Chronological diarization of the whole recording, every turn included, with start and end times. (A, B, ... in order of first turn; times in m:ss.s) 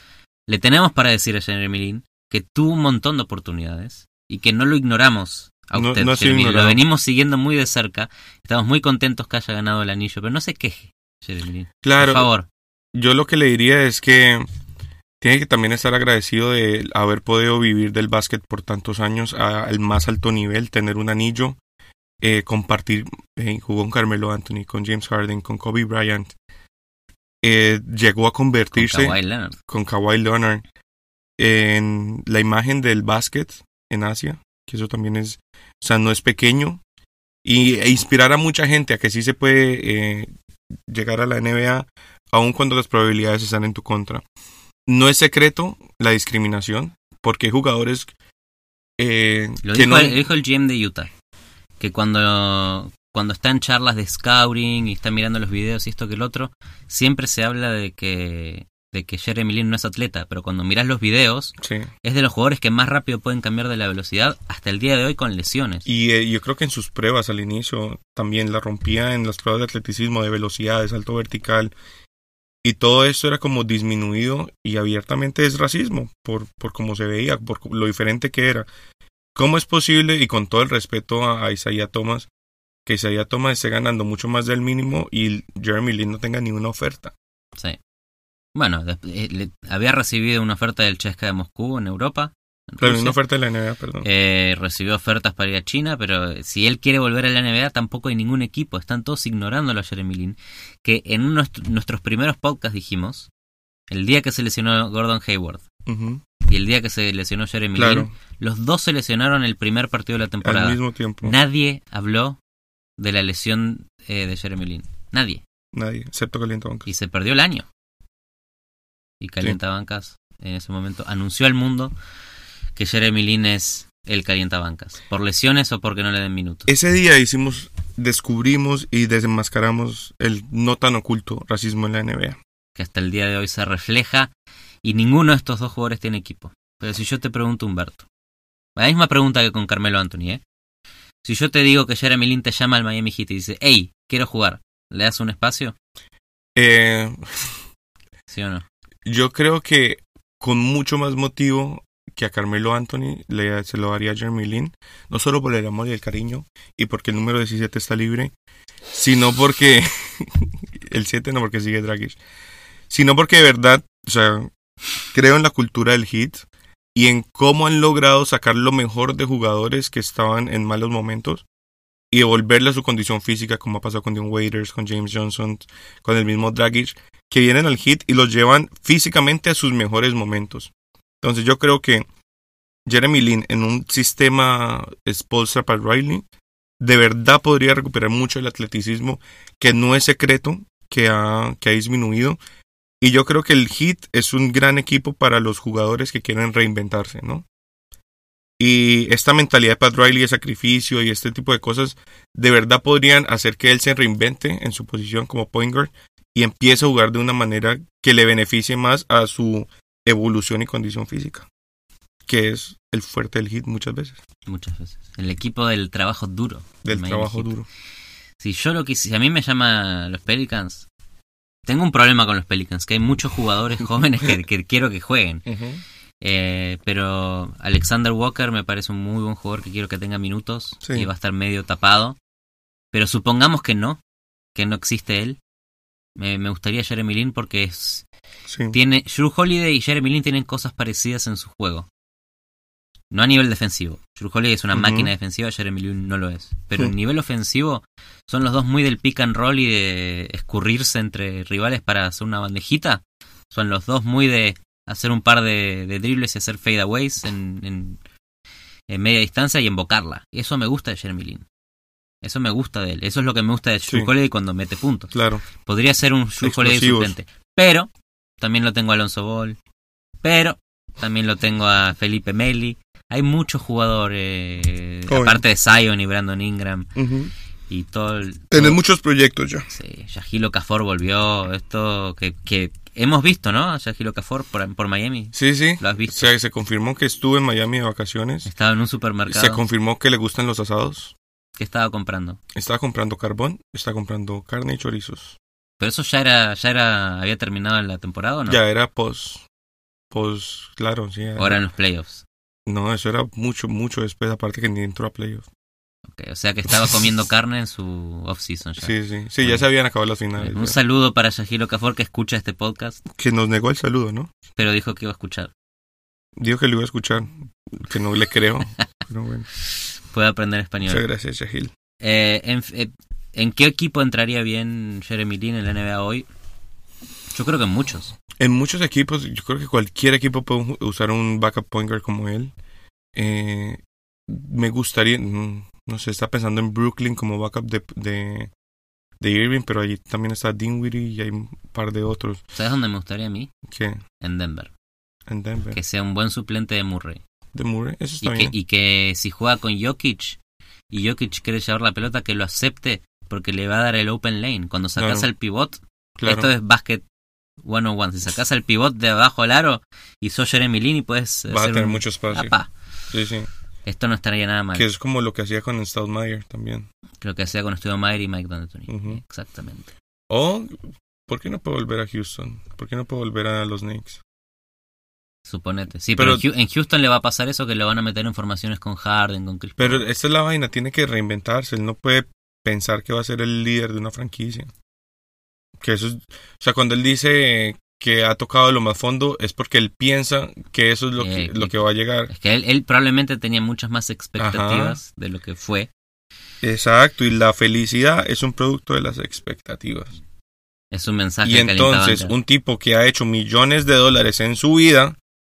0:00.5-0:12.5 A
0:05.7-0:06.8 B
0:11.8-0:12.3 B
0:12.9-0:14.5 B
0:15.2-0:21.6 B
0:22.2-0:26.3 B
0:27.4-0:29.2 B
0:28.7-0:29.6 A
0:29.7-0:30.6 B
0:31.4-0:36.8 B
0:37.4-0:40.3 B
0:40.9-0:44.2 B
0:44.8-0:48.1 B
0:49.0-0:50.2 B
0:49.6-0:51.1 A
0:51.8-1:05.8 A
1:01.6-1:01.9 B
1:05.8-1:11.7 B
1:12.6-1:18.7 B
1:19.3-1:22.3 B
1:22.8-1:27.1 B
1:28.5-1:33.2 A
1:32.8-1:34.0 B
1:34.0-1:43.3 A
1:43.9-1:45.6 A
1:45.8-1:46.2 B
1:46.5-1:52.4 A
1:47.7-1:48.1 B
1:50.4-1:51.4 B
1:53.0-1:55.4 A
1:55.7-1:56.9 B
1:56.8-1:57.6 A
1:59.2-2:01.9 A
2:02.8-2:06.7 A
2:06.7-2:12.4 B
2:12.8-2:14.3 A
2:14.8-2:18.0 A
2:18.8-2:20.4 A
2:21.2-2:25.7 A
2:26.5-2:27.6 B
2:28.3-2:28.6 A
2:29.0-2:38.3 B
2:38.9-2:42.2 B
2:42.9-2:44.5 B
2:45.1-2:51.4 B
2:52.1-3:02.1 B
3:02.8-3:06.2 B
3:06.8-3:12.4 B
3:13.0-3:17.4 B
3:18.6-3:31.5 B
3:32.3-3:34.2 B
3:34.5-3:37.5 A
3:36.8-3:37.7 B
3:38.4-3:40.8 A
3:41.6-3:45.4 A
3:45.4-3:45.8 B
3:46.2-3:52.2 A
3:50.8-3:51.1 B
3:52.9-3:54.0 A
3:54.5-3:55.4 A
3:56.2-3:58.0 A
3:58.5-3:58.8 B
3:58.7-4:01.9 A
4:03.1-4:18.0 A
4:04.7-4:05.1 B
4:18.9-4:21.4 A
4:22.2-4:29.6 A
4:25.1-4:25.4 B
4:26.4-4:27.1 B
4:30.2-4:36.9 A
4:35.1-4:35.4 B
4:36.9-4:37.3 B
4:37.7-4:38.8 A
4:38.5-4:39.7 B
4:39.7-4:46.3 A
4:45.3-4:48.5 B
4:48.4-4:49.6 A
4:49.3-4:51.1 B
4:51.6-4:52.4 A
4:52.5-4:55.4 B
4:55.8-4:58.6 A
4:58.5-4:59.4 B
5:00.1-5:01.6 B
5:01.4-5:02.2 A
5:02.6-5:05.5 B
5:06.1-5:09.6 A
5:08.8-5:10.8 B
5:10.4-5:13.0 A
5:13.1-5:14.3 B
5:14.6-5:15.5 A
5:16.4-5:19.4 B
5:19.7-5:21.0 A
5:20.8-5:21.7 B
5:22.0-5:26.3 A
5:27.3-5:28.1 A
5:28.4-5:32.5 B
5:33.2-5:38.5 B
5:39.2-5:42.4 B
5:42.5-5:43.5 A
5:43.7-5:44.0 B
5:44.2-5:44.7 A
5:45.3-5:45.8 B
5:45.7-5:47.2 A
5:47.5-5:48.5 B
5:48.2-5:50.4 A
5:50.9-5:57.0 A
5:55.0-5:55.3 B
5:56.2-5:56.5 B
5:57.6-6:02.7 A
6:01.5-6:02.5 B
6:03.1-6:03.5 B
6:03.8-6:04.9 A
6:04.7-6:06.9 B
6:07.2-6:09.9 A
6:08.9-6:09.2 B
6:10.3-6:14.2 B
6:15.4-6:20.0 A
6:16.2-6:16.4 B
6:19.8-6:24.7 B
6:25.8-6:32.3 B
6:31.2-6:35.9 A
6:34.4-6:35.0 B
6:36.6-6:40.1 B
6:40.9-6:42.4 A
6:41.4-6:45.2 B